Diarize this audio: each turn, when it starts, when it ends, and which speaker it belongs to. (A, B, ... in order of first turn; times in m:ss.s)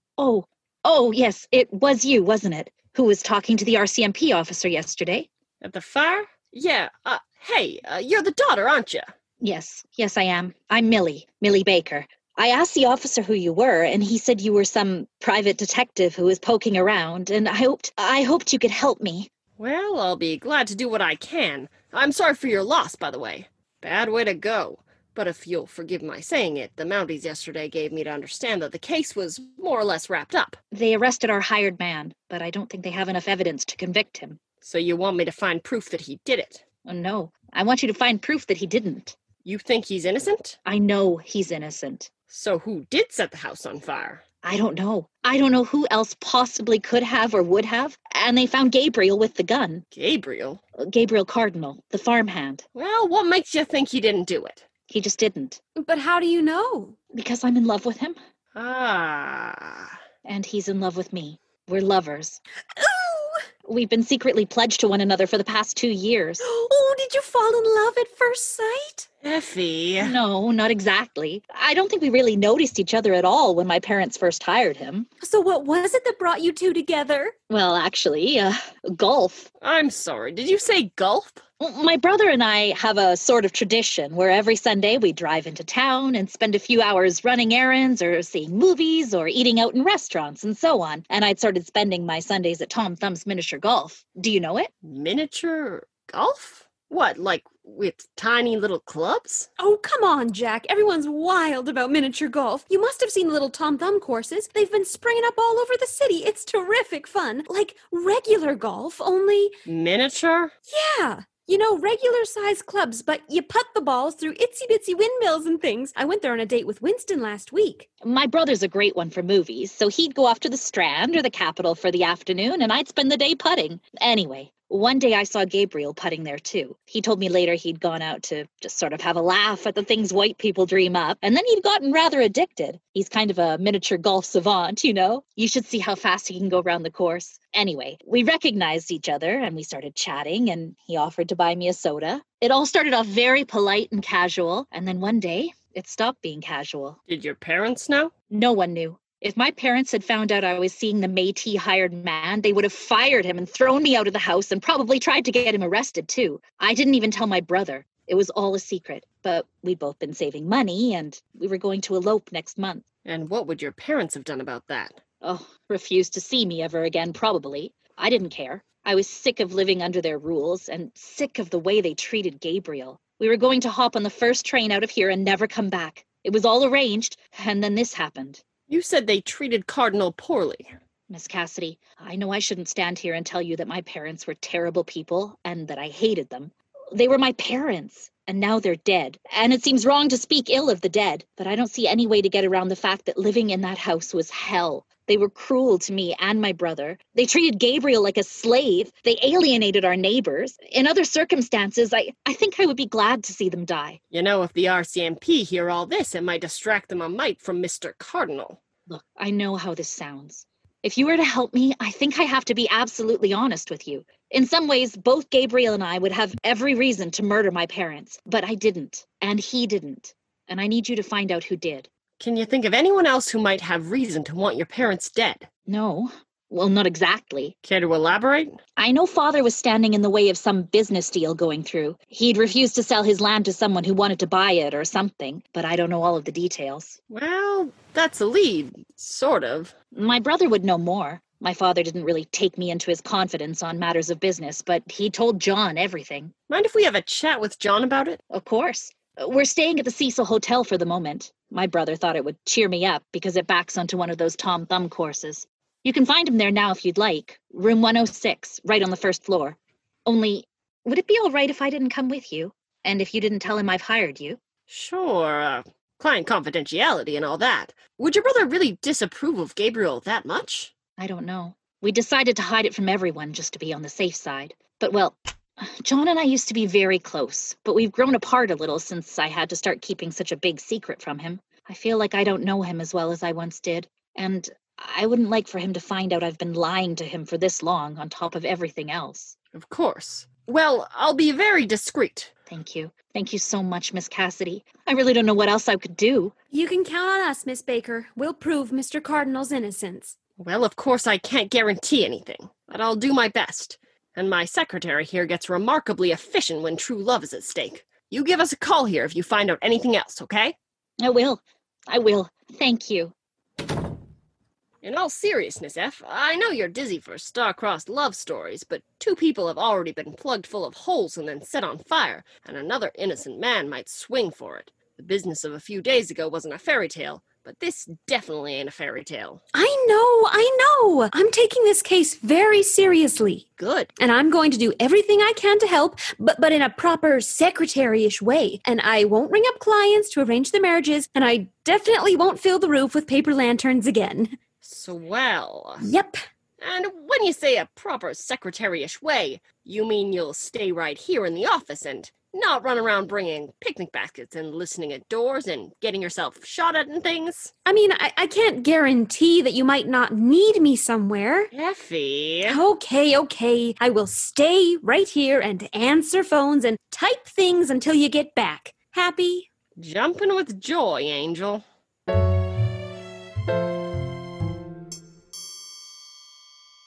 0:00.2-0:05.3 A
0:05.6-0:09.1 B
0:09.4-0:19.3 A
0:19.6-0:30.6 B
0:30.7-0:34.4 A
0:34.6-0:36.6 B
0:36.8-0:39.2 A
0:39.4-0:40.6 B
0:40.7-0:42.1 A
0:42.3-0:44.2 B
0:44.4-0:49.8 A
0:49.9-0:50.6 B
0:50.8-0:52.6 A
0:52.8-0:54.7 B
0:54.9-0:55.6 A
0:55.8-0:57.0 C
0:57.1-0:58.2 A
0:58.6-1:00.0 B
1:00.2-1:02.4 A
1:02.8-1:03.4 C
1:03.6-1:06.4 A
1:06.4-1:09.1 C
1:09.2-1:10.2 B
1:10.0-1:15.1 A
1:15.2-1:17.3 C
1:17.5-1:19.5 A
1:19.6-1:21.4 B
1:21.6-1:34.7 A
1:34.8-1:39.5 B
1:39.6-1:49.5 C
1:49.7-1:50.5 B
1:50.7-1:57.9 C
1:58.0-2:27.0 A
2:27.1-2:28.1 B
2:28.3-2:42.8 A
2:43.0-2:45.0 B
2:45.2-2:58.4 A
2:58.7-3:00.7 B
3:01.1-3:24.0 A
3:24.1-3:28.6 B
3:28.9-3:41.9 A
3:42.2-3:45.5 B
3:45.7-3:47.5 A
3:47.6-3:48.6 B
3:48.8-3:57.0 A
3:57.1-3:59.7 B
3:59.9-4:06.3 A
4:06.5-4:08.2 B
4:08.3-4:24.4 A
4:24.7-4:30.7 B
4:31.0-4:49.4 A
4:49.5-4:52.3 B
4:52.5-4:56.3 A
4:56.5-5:00.2 C
5:00.4-5:10.6 B
5:11.0-5:13.1 A
5:14.8-5:29.4 B
5:29.5-5:33.4 C
5:33.6-5:33.9 B
5:34.0-5:44.4 C
5:44.6-5:45.8 B
5:45.8-5:46.2 C
5:46.6-5:57.5 B
5:57.7-6:01.5 C
6:01.5-6:02.6 B
6:02.5-6:09.5 C
6:09.8-6:11.6 B